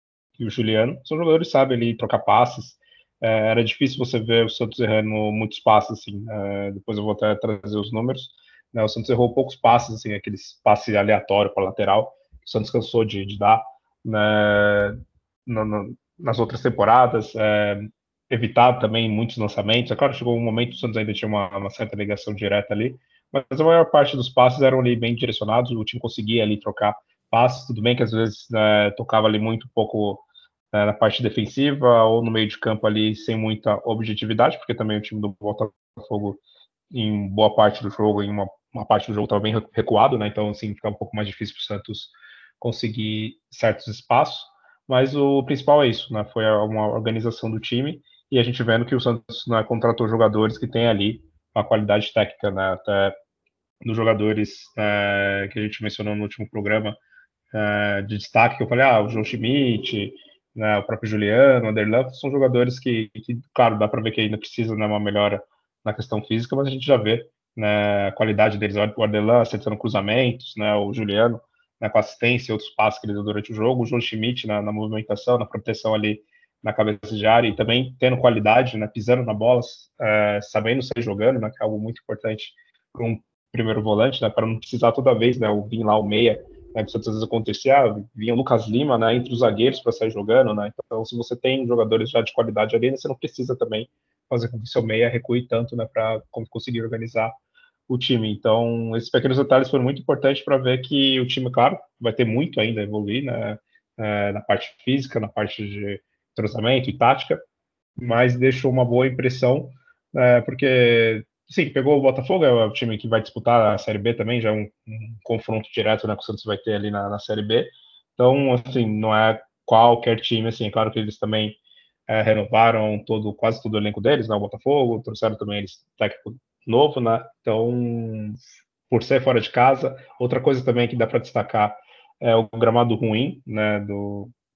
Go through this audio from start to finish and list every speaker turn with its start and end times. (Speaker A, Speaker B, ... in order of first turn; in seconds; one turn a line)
Speaker A: 0.4-53.2
Speaker A: 53.8-57.0
Speaker A: 57.5-97.3
Speaker A: 97.9-107.4
Speaker A: 108.0-134.3